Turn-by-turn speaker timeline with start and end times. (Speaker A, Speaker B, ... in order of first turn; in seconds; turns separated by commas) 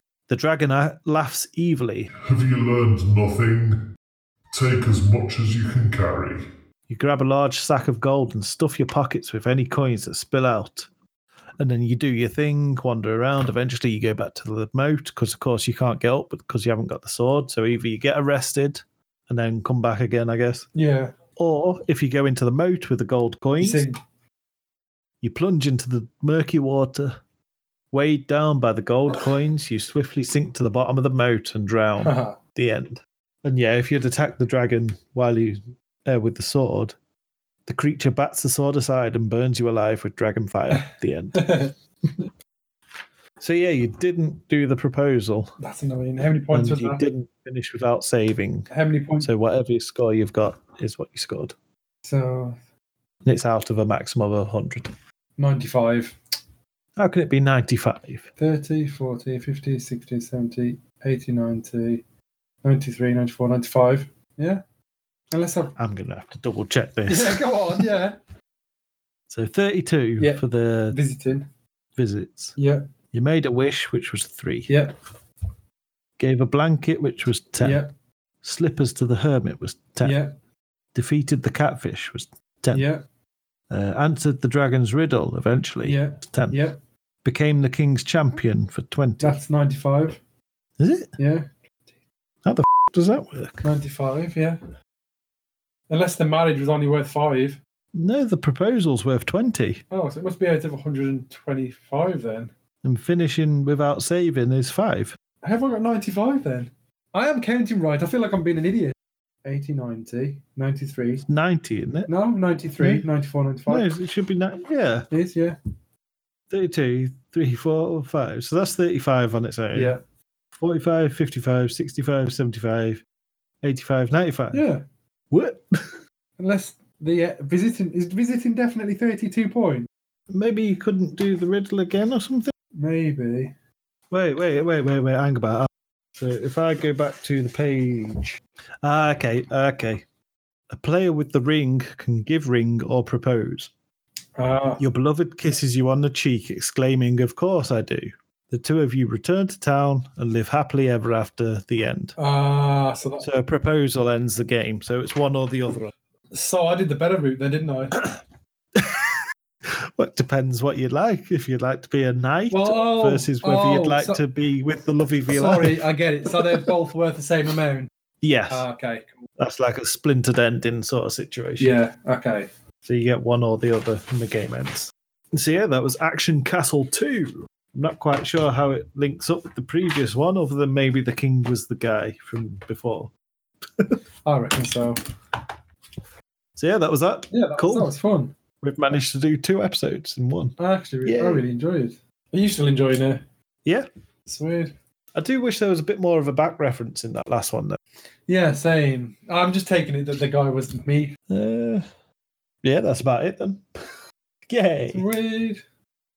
Speaker A: 0.3-2.1, Speaker B: 2.2-3.9, Speaker B: 4.5-6.5, Speaker A: 6.9-10.9, Speaker A: 11.6-20.7, Speaker C: 20.8-21.1, Speaker A: 21.4-23.9, Speaker C: 23.6-24.0, Speaker A: 25.2-27.2, Speaker A: 27.9-37.0, Speaker C: 32.0-32.4, Speaker A: 37.7-41.6, Speaker C: 41.3-41.7, Speaker A: 43.4-45.5, Speaker C: 45.6-47.0, Speaker A: 46.5-48.7, Speaker C: 48.7-49.3, Speaker A: 49.2-51.5, Speaker C: 52.0-52.6, Speaker A: 53.2-54.9, Speaker C: 55.4-56.2, Speaker A: 57.0-58.3, Speaker C: 58.4-62.0, Speaker C: 62.6-64.6, Speaker C: 65.3-65.8, Speaker A: 65.8-67.8, Speaker C: 67.1-68.2, Speaker A: 69.3-71.0, Speaker C: 70.2-71.5, Speaker A: 72.0-72.6, Speaker C: 72.6-72.8, Speaker A: 73.1-74.7, Speaker C: 74.7-74.9, Speaker A: 76.2-77.8, Speaker C: 77.6-77.9, Speaker A: 78.4-80.2, Speaker C: 80.0-80.3, Speaker A: 80.9-82.9, Speaker C: 82.7-83.0, Speaker A: 83.7-86.6, Speaker C: 85.8-86.8, Speaker A: 87.2-89.4, Speaker C: 89.2-90.2, Speaker A: 90.8-91.1, Speaker C: 91.2-91.5, Speaker A: 92.4-93.6, Speaker C: 93.6-94.6, Speaker C: 95.9-97.6, Speaker A: 97.9-99.8, Speaker C: 99.9-102.5, Speaker A: 102.8-105.2, Speaker C: 105.4-111.3, Speaker A: 111.3-112.1, Speaker C: 112.1-113.9, Speaker A: 112.8-113.1, Speaker A: 113.7-115.1, Speaker C: 115.1-115.6, Speaker A: 116.5-120.0, Speaker C: 119.7-120.0, Speaker A: 120.6-123.0, Speaker A: 123.6-124.6, Speaker C: 124.5-124.8, Speaker A: 125.3-126.0, Speaker C: 126.4-129.9, Speaker A: 130.3-132.5, Speaker C: 132.8-133.5, Speaker A: 134.1-140.1, Speaker A: 140.7-143.7, Speaker C: 144.4-144.8, Speaker A: 144.8-152.2, Speaker C: 152.2-153.3, Speaker A: 153.2-155.9, Speaker C: 156.3-158.0, Speaker A: 158.8-165.8, Speaker C: 162.5-164.2, Speaker C: 165.3-167.9, Speaker A: 166.3-166.7, Speaker A: 168.2-168.7, Speaker C: 168.5-169.2, Speaker A: 169.4-171.8, Speaker C: 171.6-172.5, Speaker A: 172.8-183.1, Speaker C: 184.3-185.0, Speaker A: 186.6-187.9, Speaker C: 187.3-188.3, Speaker A: 188.6-191.4, Speaker C: 190.6-193.2, Speaker C: 194.3-194.7, Speaker A: 195.2-197.8, Speaker C: 198.3-201.2, Speaker A: 201.3-201.9, Speaker A: 202.6-203.7, Speaker A: 204.5-205.1, Speaker C: 204.9-205.6